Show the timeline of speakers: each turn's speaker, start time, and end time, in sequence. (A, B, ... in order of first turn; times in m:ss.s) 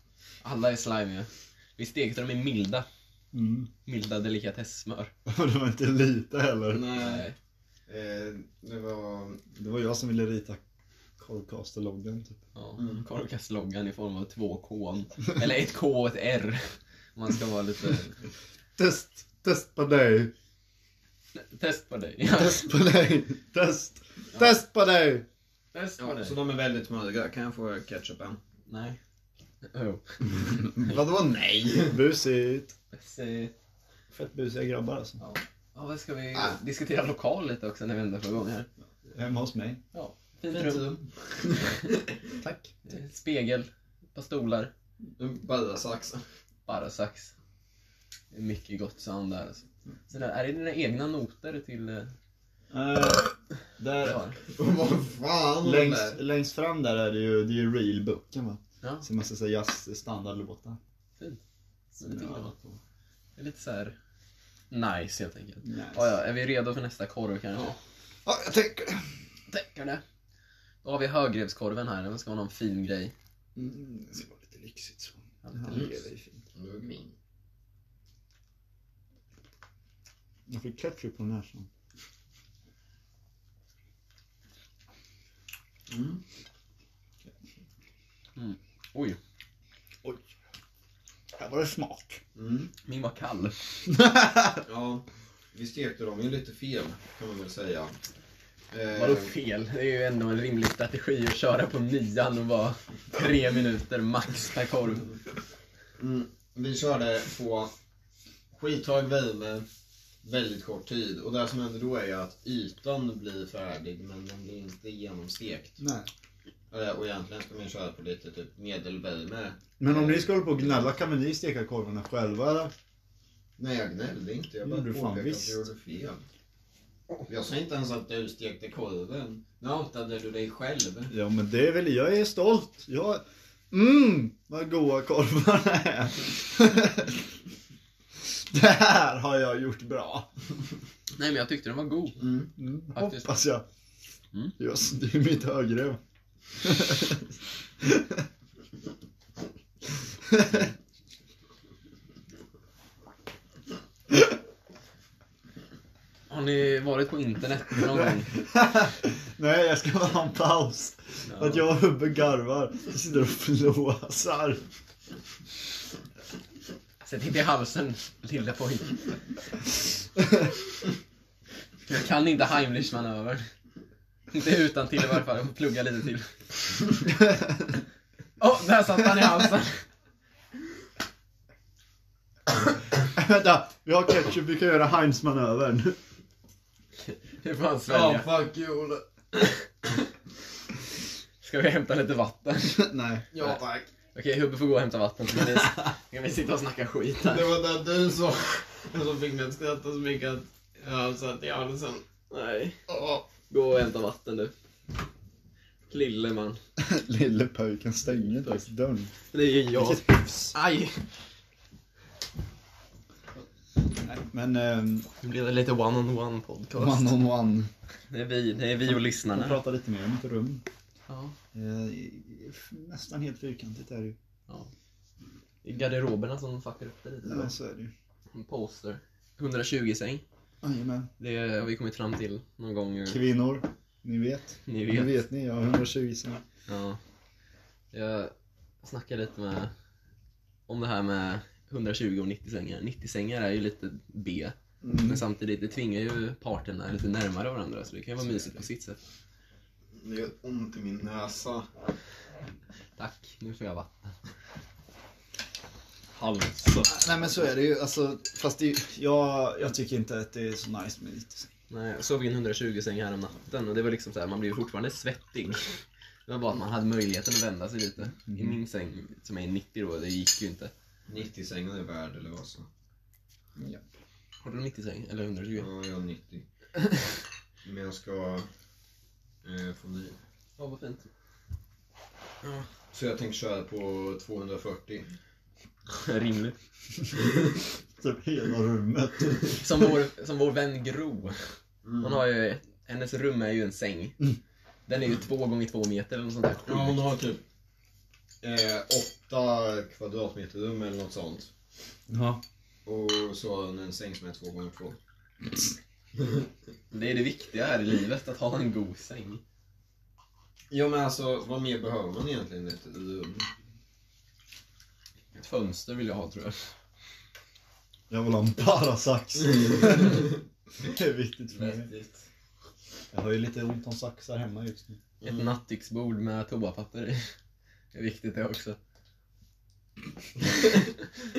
0:00.4-0:02.9 A
0:03.3-0:03.7 B
0:03.9-0:05.1 A
0:05.3-0:07.0 B
0:06.7-0:07.2 C
0:07.0-0:07.4 A
0:07.9-0:09.5 C
0:09.6-0:10.6 B
0:11.2-0:12.4 B
0:12.6-0:18.1 A
0:12.8-0:13.0 C
0:18.8-0:20.3 B
0:21.4-0:22.7 A
0:22.3-0:25.3 B
0:25.7-0:26.3 A
0:26.0-0:28.4 C
0:28.7-0:29.0 A
0:29.6-0:30.2 A
0:30.7-0:32.0 C
0:31.8-0:32.8 B
0:32.9-0:33.5 A
0:34.1-0:35.2 B
0:35.8-0:38.7 A
0:39.1-0:39.8 B
0:39.9-0:40.9 A
0:40.5-0:42.2 C
0:42.4-0:42.7 B
0:42.8-0:44.7 A
0:45.2-0:46.2 C
0:46.7-0:47.3 A
0:48.3-0:52.1 A
0:52.7-0:54.1 B
0:54.0-0:54.4 A
0:54.4-0:56.2 C
0:55.6-1:00.8 B
1:02.0-1:02.5 A
1:02.0-1:02.8 B
1:03.4-1:04.0 A
1:04.7-1:07.8 A
1:05.6-1:06.1 B
1:08.3-1:09.1 B
1:09.5-1:10.0 A
1:10.8-1:13.1 A
1:13.6-1:16.4 B
1:15.4-1:15.9 A
1:16.6-1:17.1 C
1:20.5-1:21.7 B
1:25.9-1:26.2 C
1:28.4-1:29.2 A
1:30.0-1:30.3 B
1:31.4-1:32.2 B
1:32.4-1:32.7 C
1:32.8-1:33.6 A
1:33.9-1:34.6 B
1:34.6-1:38.0 C
1:38.7-1:39.3 C
1:38.9-1:45.1 A
1:46.0-1:47.7 C
1:48.5-1:49.7 C
1:50.2-1:55.8 C
1:55.8-1:56.1 B
1:56.7-2:00.9 C
1:59.8-2:02.7 B
2:03.6-2:06.2 C
2:04.6-2:05.6 B
2:07.3-2:11.1 C
2:11.1-2:17.3 B
2:18.2-2:20.3 B
2:21.2-2:22.2 A
2:22.2-2:22.5 C
2:22.6-2:23.6 B
2:23.0-2:23.4 A
2:24.6-2:26.0 B
2:26.6-2:28.2 B
2:30.2-2:30.7 B
2:36.3-2:38.3 A
2:38.3-2:44.6 B
2:41.3-2:41.6 A
2:47.0-2:49.1 A
2:51.9-2:53.4 A
2:54.3-2:56.3 A
2:57.2-2:57.6 B
2:58.4-2:59.8 A
3:03.1-3:06.0 B
3:07.0-3:08.3 A
3:07.9-3:09.0 C
3:11.4-3:13.6 A
3:12.7-3:13.3 B
3:13.3-3:13.9 C
3:14.1-3:17.5 A
3:17.2-3:22.0 C
3:22.3-3:22.8 A
3:22.9-3:23.2 C
3:23.5-3:24.5 A
3:25.9-3:26.6 A
3:26.8-3:29.1 B
3:28.4-3:28.7 A
3:29.3-3:31.0 A
3:29.7-3:30.6 B
3:34.0-3:35.1 B
3:35.2-3:37.1 A
3:36.8-3:37.7 B
3:38.1-3:39.6 A
3:38.9-3:40.6 B
3:41.1-3:41.3 A
3:41.5-3:44.2 B
3:45.6-3:47.5 A
3:47.2-3:47.9 B
3:48.3-3:50.2 A
3:50.6-3:51.1 B
3:51.2-3:53.2 A
3:53.1-3:56.4 B
3:54.7-3:55.1 A
3:56.7-3:57.0 A
3:57.9-3:59.7 A
4:00.7-4:09.0 A
4:04.8-4:05.2 B
4:10.0-4:11.7 C
4:13.0-4:14.1 A
4:16.2-4:21.5 B
4:21.7-4:30.7 A
4:28.3-4:28.6 B
4:31.1-4:32.7 C
4:33.6-4:33.9 B
4:34.4-4:35.7 A
4:35.6-4:36.4 C
4:37.6-4:38.5 C
4:39.4-4:40.2 C
4:40.6-4:41.1 A
4:42.4-4:42.7 A
4:42.9-4:45.1 C
4:45.9-4:46.6 A
4:47.2-4:47.6 C
4:48.0-4:49.6 B
4:49.6-4:54.2 A
4:51.8-4:52.2 C
4:54.9-4:57.0 A
4:56.7-4:57.4 C
4:58.4-5:01.5 C
5:02.1-5:02.4 B
5:02.9-5:05.0 C
5:06.2-5:06.5 C
5:06.9-5:09.4 A
5:10.7-5:13.5 C
5:15.4-5:16.7 A
5:18.1-5:20.3 B
5:20.8-5:21.9 B
5:21.6-5:22.2 A
5:23.1-5:25.0 B
5:25.2-5:25.5 C
5:25.2-5:27.3 A
5:27.9-5:28.8 A